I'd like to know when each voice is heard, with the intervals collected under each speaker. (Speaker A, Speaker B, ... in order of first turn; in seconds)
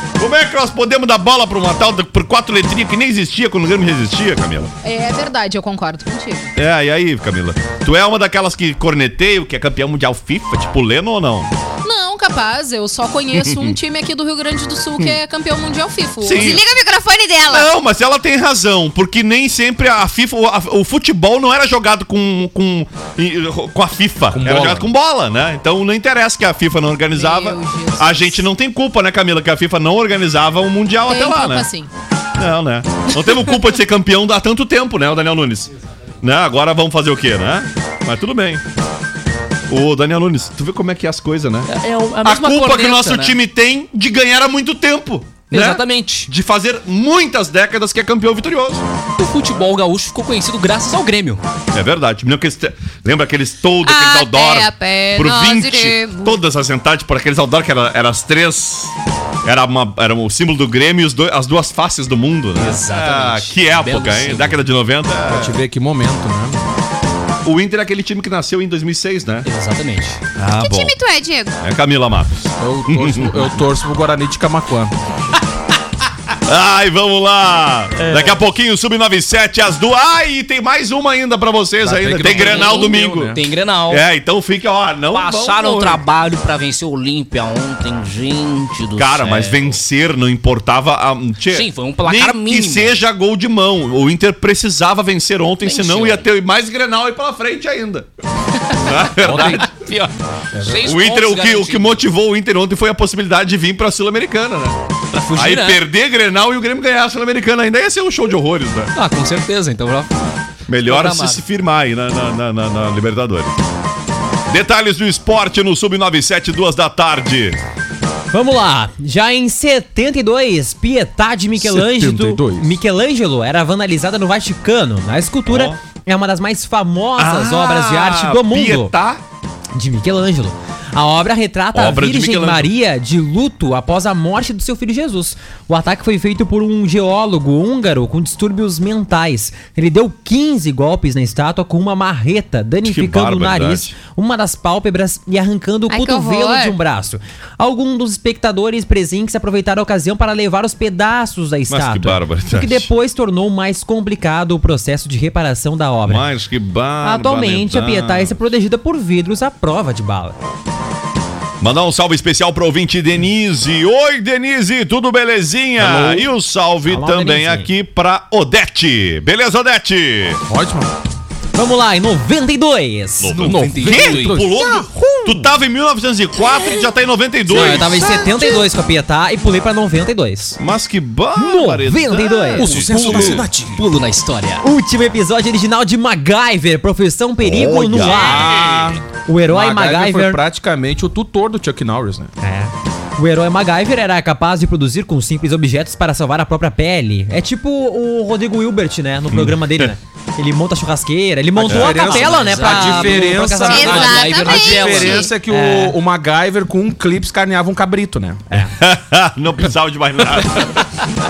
Speaker A: 0.2-4.7, 6.5-11.5, 13.3-13.8, 16.2-16.6, 17.5-31.7, 32.4-35.7, 36.2-38.6, 39.7-41.7, 42.2-48.8, 51.7-58.9, 59.5-65.6, 67.4-69.5, 70.4-71.0, 71.6-73.5, 76.5-83.4, 83.9-86.0, 89.0-98.1, 98.8-99.7, 100.8-104.8, 105.3-108.9, 110.7-113.5, 114.5-117.6, 125.5-125.8, 127.2-129.2, 131.7-132.7, 142.8-144.0, 151.7-152.9, 156.1-158.5, 161.6-170.4, 173.2-178.1, 180.6-183.5, 187.4-188.7, 199.3-199.9, 201.7-202.0, 208.6-210.8
Speaker B: 4.8-6.5, 11.8-16.6, 27.1-28.4, 31.1-31.9
Speaker C: 16.3-17.7, 53.8-56.4, 70.6-71.5, 145.9-146.8, 203.7-205.3
Speaker D: 24.3-24.9, 65.3-66.6, 72.6-74.9, 81.8-83.4, 99.2-99.6, 100.5-100.9, 121.6-122.7, 165.8-166.2, 170.5-170.9, 173.4-174.6, 182.6-183.8, 188.0-192.3, 201.6-208.4
Speaker E: 41.7-43.4, 45.5-46.3, 49.2-51.4, 62.6-64.6, 69.4-70.2, 78.1-78.4, 82.2-84.0, 85.1-89.8, 91.5-93.0, 95.6-96.3, 99.2-102.0, 105.1-105.8, 109.0-110.1, 110.8-111.4, 173.4-174.4, 182.7-184.6, 201.9-205.3
Speaker F: 118.3-128.9, 129.7-156.3, 157.0-160.4, 166.9-167.7, 171.6-173.3, 174.5-175.5, 177.5-180.6, 181.3-182.7, 184.6-188.5, 189.3-190.4, 192.4-204.3, 205.5-206.0